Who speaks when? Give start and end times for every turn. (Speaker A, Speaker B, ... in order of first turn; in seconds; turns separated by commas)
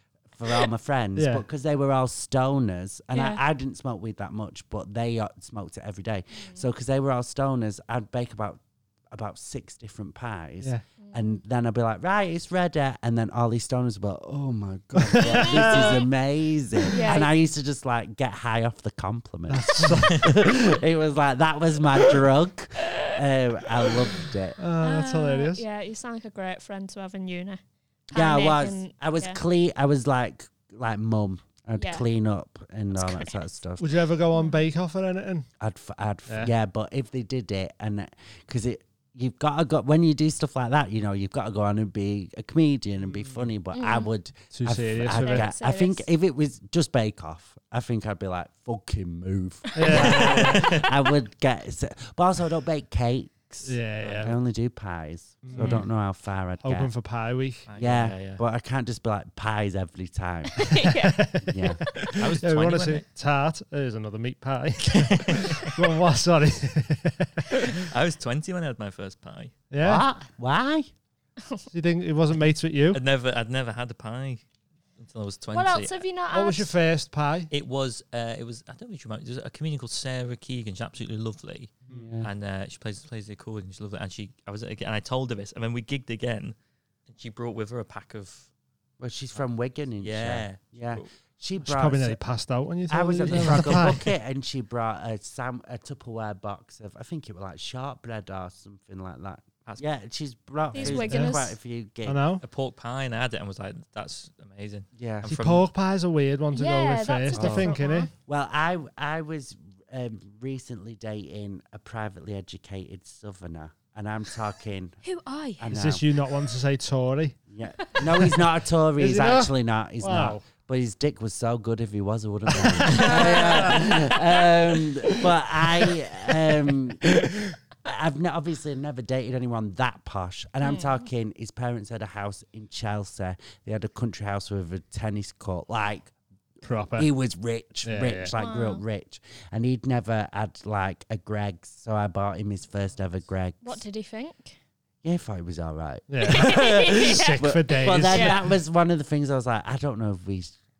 Speaker A: 0.3-24.6, Speaker B: 1.2-1.4, Speaker C: 3.1-3.4, Speaker C: 6.3-6.6, Speaker C: 11.0-11.4, Speaker B: 15.0-16.0, Speaker C: 15.3-16.0, Speaker C: 16.9-17.3, Speaker B: 19.5-20.4, Speaker B: 24.6-25.6, Speaker C: 24.8-29.4, Speaker A: 28.1-34.0, Speaker C: 31.8-32.1, Speaker C: 33.0-33.4, Speaker B: 33.8-35.5, Speaker C: 34.3-34.6, Speaker A: 35.6-56.9, Speaker B: 43.0-43.5, Speaker C: 43.7-44.1, Speaker B: 44.5-45.5, Speaker C: 45.2-46.1, Speaker B: 49.8-50.6, Speaker C: 49.9-50.2, Speaker D: 49.9-50.9, Speaker B: 53.6-54.4, Speaker D: 54.0-54.3, Speaker B: 55.4-55.9, Speaker C: 55.5-55.8, Speaker B: 56.6-57.7, Speaker D: 57.7-58.4, Speaker A: 57.8-60.8, Speaker C: 60.7-61.3, Speaker B: 61.0-67.7, Speaker A: 61.4-62.0, Speaker D: 62.1-63.0, Speaker D: 64.9-65.7, Speaker D: 67.8-69.5, Speaker B: 69.7-70.1, Speaker A: 69.8-70.9, Speaker B: 71.7-73.0, Speaker D: 72.9-74.4, Speaker D: 75.0-76.0, Speaker C: 75.5-76.7, Speaker B: 76.3-77.5, Speaker D: 77.5-86.5, Speaker A: 81.9-82.3, Speaker D: 87.1-88.5, Speaker A: 89.0-92.2, Speaker D: 90.0-91.1, Speaker B: 91.6-94.1, Speaker A: 92.9-102.2, Speaker D: 93.3-93.8, Speaker C: 100.7-101.6, Speaker D: 100.8-101.1, Speaker B: 101.1-101.3, Speaker B: 102.0-102.4, Speaker D: 102.4-105.7, Speaker A: 105.0-105.4, Speaker B: 105.2-108.1, Speaker C: 106.5-108.1, Speaker A: 107.3-107.7, Speaker A: 108.3-115.0, Speaker C: 115.0-115.7, Speaker A: 115.6-116.1, Speaker B: 115.7-117.4, Speaker A: 117.5-136.1, Speaker B: 119.0-120.4, Speaker B: 122.5-123.1, Speaker C: 123.0-123.9, Speaker C: 130.6-131.0, Speaker B: 136.6-137.1, Speaker A: 136.9-143.8, Speaker B: 137.8-138.3, Speaker C: 138.3-138.8, Speaker C: 143.6-144.6, Speaker A: 145.0-150.6, Speaker B: 146.1-148.5, Speaker C: 146.2-147.4, Speaker C: 148.0-148.4